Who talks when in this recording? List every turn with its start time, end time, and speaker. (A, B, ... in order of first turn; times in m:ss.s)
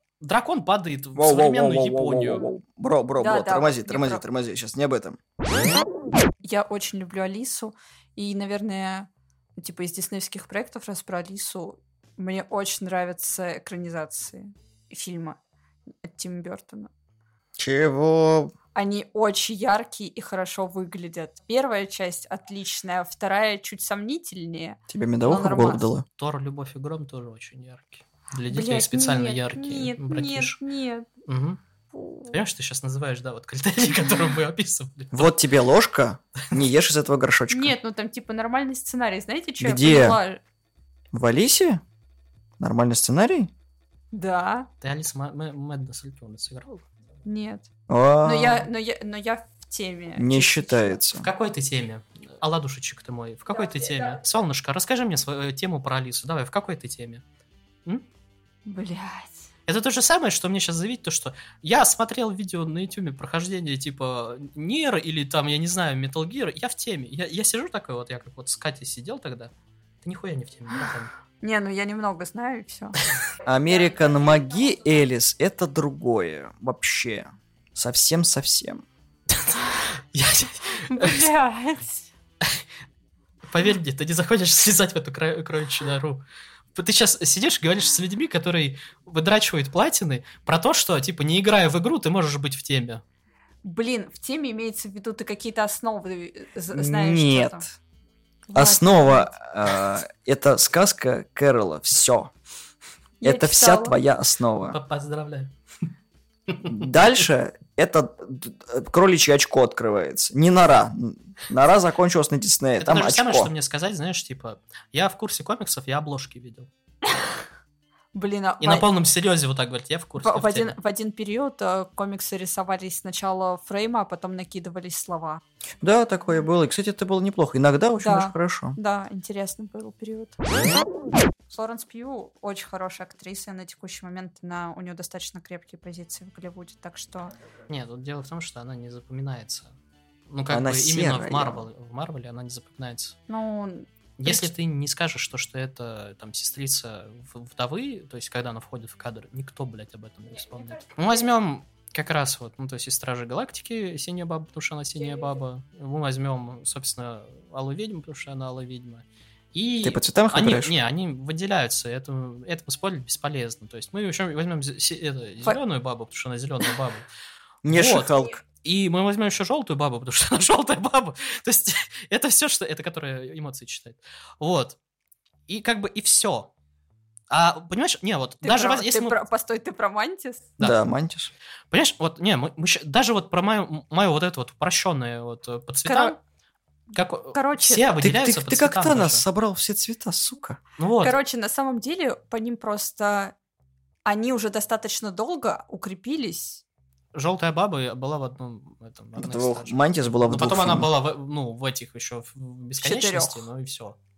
0:00.2-0:02.4 A
0:01.1-0:05.2 B
0:03.2-0:04.2 C
0:06.4-0:15.4 C
0:16.0-0:16.9 C
0:17.6-0:18.5 B
0:18.7-0:25.8 C
0:24.9-0:26.0 B
0:26.2-0:30.6 A
0:28.5-0:31.1 C
0:31.3-0:31.6 A
0:31.9-0:32.4 C
0:32.3-0:35.3 A
0:35.1-0:37.7 B
0:37.5-0:40.4 C
0:39.6-0:40.2 B
0:41.1-0:41.8 B
0:42.6-0:43.5 B
0:44.1-0:44.7 C
0:44.8-0:46.8 A
0:47.2-0:47.7 C
0:47.9-0:48.7 B
0:48.2-0:51.0 C
0:50.2-0:51.3 B
0:51.2-0:57.2 A
0:58.6-0:59.4 C
0:59.7-1:11.1 A
1:11.4-1:13.0 C
1:13.4-1:18.8 B
1:19.3-1:21.3 A
1:20.9-1:22.1 C
1:23.5-1:26.2 A
1:26.7-1:33.0 A
1:33.6-1:37.6 C
1:36.7-1:37.7 B
1:38.5-1:39.3 C
1:38.5-1:42.3 B
1:43.2-1:44.0 C
1:43.2-1:44.8 B
1:44.7-1:45.5 A
1:46.5-1:46.9 A
1:46.6-1:53.5 B
1:52.8-1:56.7 A
1:58.1-1:58.9 C
1:58.6-2:00.7 A
2:00.2-2:05.4 C
2:05.8-2:08.8 B
2:08.0-2:10.7 C
2:11.5-2:17.3 C
2:17.7-2:19.7 A
2:20.3-2:23.1 A
2:20.5-2:21.6 B
2:23.3-2:24.5 C
2:24.2-2:47.0 A
2:39.8-2:40.7 B
2:47.6-2:48.4 B
2:47.7-2:54.8 A
2:55.5-2:56.5 A
2:57.3-2:59.2 A
2:58.4-3:00.5 C
3:00.6-3:01.3 B
3:01.7-3:06.2 A
3:05.8-3:06.2 C
3:06.9-3:09.2 A
3:07.3-3:07.9 C
3:08.0-3:10.6 B
3:10.8-3:11.2 A
3:11.0-3:13.3 C
3:14.0-3:16.6 C
3:17.1-3:24.0 A
3:19.2-3:20.9 B
3:22.8-3:23.5 C